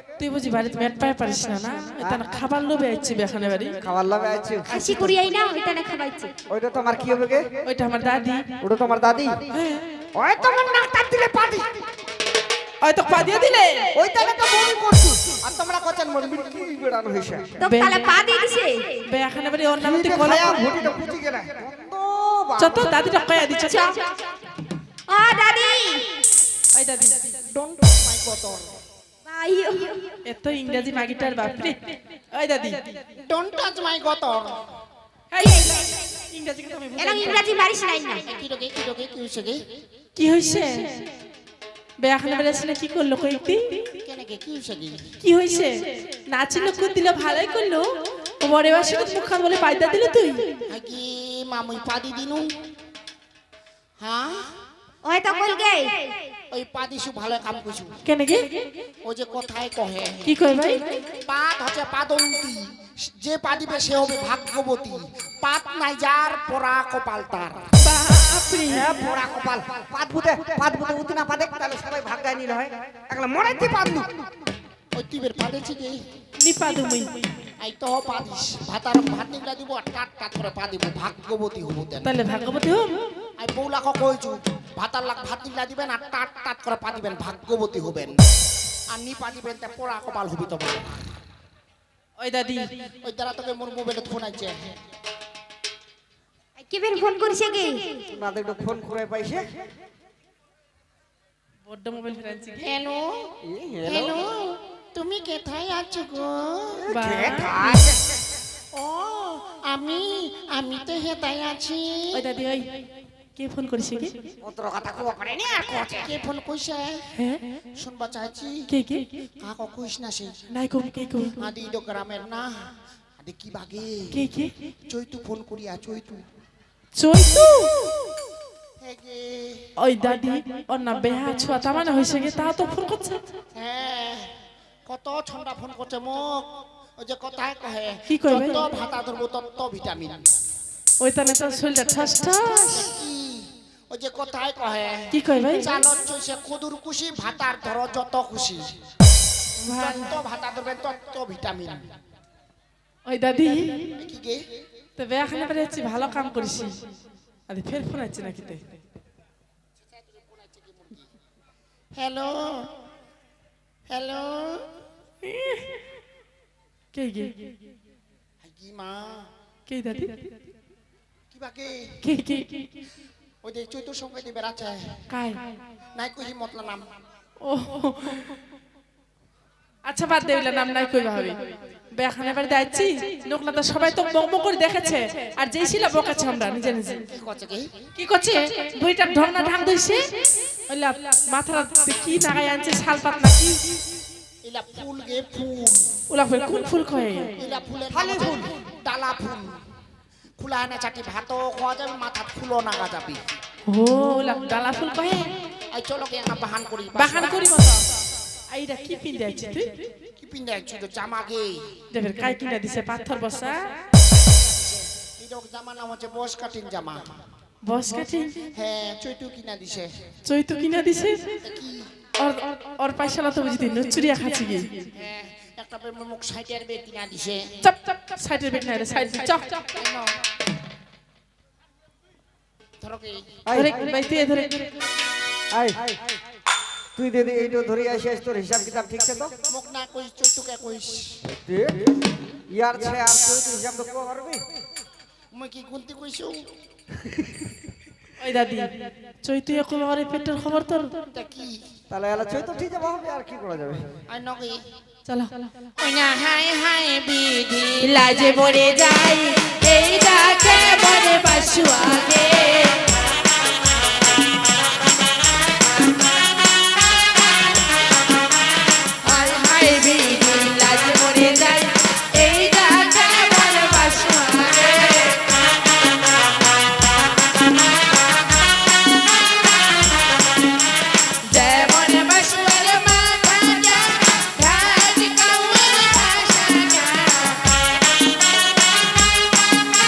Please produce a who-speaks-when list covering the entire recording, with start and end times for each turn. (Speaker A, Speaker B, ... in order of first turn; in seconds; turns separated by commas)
Speaker A: 0.2-3.8, Speaker B: 3.8-5.2, Speaker C: 4.7-6.3, Speaker B: 6.5-7.5, Speaker A: 7.7-8.4, Speaker B: 8.6-9.5, Speaker A: 9.5-9.9, Speaker B: 10.2-11.7, Speaker A: 12.8-13.9, Speaker B: 14.0-17.6, Speaker C: 17.6-18.9, Speaker A: 17.6-18.1, Speaker A: 19.1-20.6, Speaker B: 19.8-22.9, Speaker A: 22.6-23.9, Speaker C: 23.7-24.2, Speaker C: 25.1-26.1, Speaker A: 26.7-27.2, Speaker D: 27.5-28.7, Speaker C: 29.3-30.1, Speaker A: 30.2-31.8, Speaker A: 32.3-32.8, Speaker D: 33.3-34.6, Speaker A: 35.3-37.5, Speaker C: 35.4-35.7, Speaker C: 37.0-38.3, Speaker D: 38.3-39.6, Speaker A: 40.2-40.9, Speaker A: 42.0-43.8, Speaker D: 44.0-45.1, Speaker A: 45.2-47.9, Speaker A: 48.4-50.5, Speaker D: 50.7-52.5, Speaker D: 54.0-54.5, Speaker C: 55.0-56.1, Speaker D: 56.5-58.0, Speaker A: 58.0-58.5, Speaker D: 59.0-60.3, Speaker A: 60.2-60.9, Speaker D: 61.2-67.7, Speaker A: 67.8-68.9, Speaker B: 68.7-74.1, Speaker D: 74.9-76.0, Speaker A: 76.4-77.1, Speaker D: 77.6-82.1, Speaker A: 82.0-82.9, Speaker D: 83.4-88.2, Speaker D: 88.9-91.0, Speaker A: 92.2-92.6, Speaker D: 93.0-94.5, Speaker C: 96.6-98.0, Speaker B: 98.1-99.4, Speaker A: 101.7-102.7, Speaker D: 102.6-103.3, Speaker B: 103.4-104.3, Speaker D: 103.8-106.9, Speaker A: 106.9-107.8, Speaker B: 106.9-108.0, Speaker D: 108.7-112.2, Speaker A: 112.1-112.7, Speaker A: 113.4-114.2, Speaker B: 114.4-116.1, Speaker D: 115.8-117.0, Speaker A: 117.2-117.4, Speaker D: 117.8-118.7, Speaker A: 118.7-119.0, Speaker D: 119.4-120.4, Speaker A: 120.5-121.5, Speaker D: 121.4-122.5, Speaker D: 123.2-124.2, Speaker A: 124.1-124.5, Speaker D: 124.9-126.2, Speaker A: 127.0-127.7, Speaker D: 128.8-129.7, Speaker A: 129.8-133.2, Speaker D: 133.6-134.3, Speaker D: 134.9-136.5, Speaker D: 137.0-140.2, Speaker A: 138.1-138.6, Speaker A: 141.0-142.9, Speaker D: 142.7-148.7, Speaker A: 145.1-145.7, Speaker A: 149.6-150.1, Speaker D: 149.7-151.8, Speaker A: 153.1-153.9, Speaker D: 154.0-154.5, Speaker A: 155.0-156.7, Speaker A: 157.5-158.8, Speaker D: 159.8-161.1, Speaker D: 161.9-162.7, Speaker D: 163.9-164.6, Speaker A: 165.2-165.7, Speaker A: 166.9-167.4, Speaker D: 168.4-169.3, Speaker A: 169.7-170.2, Speaker D: 171.3-172.0, Speaker A: 172.0-172.8, Speaker D: 173.4-175.0, Speaker A: 175.1-175.4, Speaker D: 175.9-176.8, Speaker A: 177.4-178.3, Speaker A: 179.9-181.3, Speaker A: 181.9-187.0, Speaker D: 187.1-187.7, Speaker A: 188.0-190.0, Speaker A: 190.7-193.6, Speaker D: 194.4-195.8, Speaker A: 196.1-197.3, Speaker D: 197.4-199.5, Speaker B: 197.9-198.5, Speaker D: 200.4-203.2, Speaker A: 203.7-205.3, Speaker D: 205.7-207.7, Speaker A: 207.0-207.9, Speaker A: 208.5-209.8, Speaker D: 210.2-211.7, Speaker A: 211.9-213.6, Speaker D: 214.3-217.1, Speaker A: 217.6-218.4, Speaker D: 218.6-220.0, Speaker A: 220.2-221.4, Speaker D: 221.4-221.9, Speaker A: 222.2-224.8, Speaker D: 224.9-227.5, Speaker A: 227.6-229.6, Speaker D: 229.7-230.2, Speaker D: 232.8-233.3, Speaker B: 233.5-233.9, Speaker A: 233.5-234.7, Speaker B: 235.5-236.0, Speaker B: 237.0-239.3, Speaker D: 239.5-241.2, Speaker B: 241.3-241.9, Speaker B: 242.5-244.4, Speaker D: 245.3-246.5, Speaker A: 248.2-248.7, Speaker A: 249.2-250.9, Speaker D: 251.1-251.6, Speaker B: 251.9-253.9, Speaker D: 254.1-254.6, Speaker A: 255.1-255.3, Speaker D: 255.8-258.3, Speaker A: 257.8-262.8, Speaker A: 269.0-275.2, Speaker A: 281.3-287.4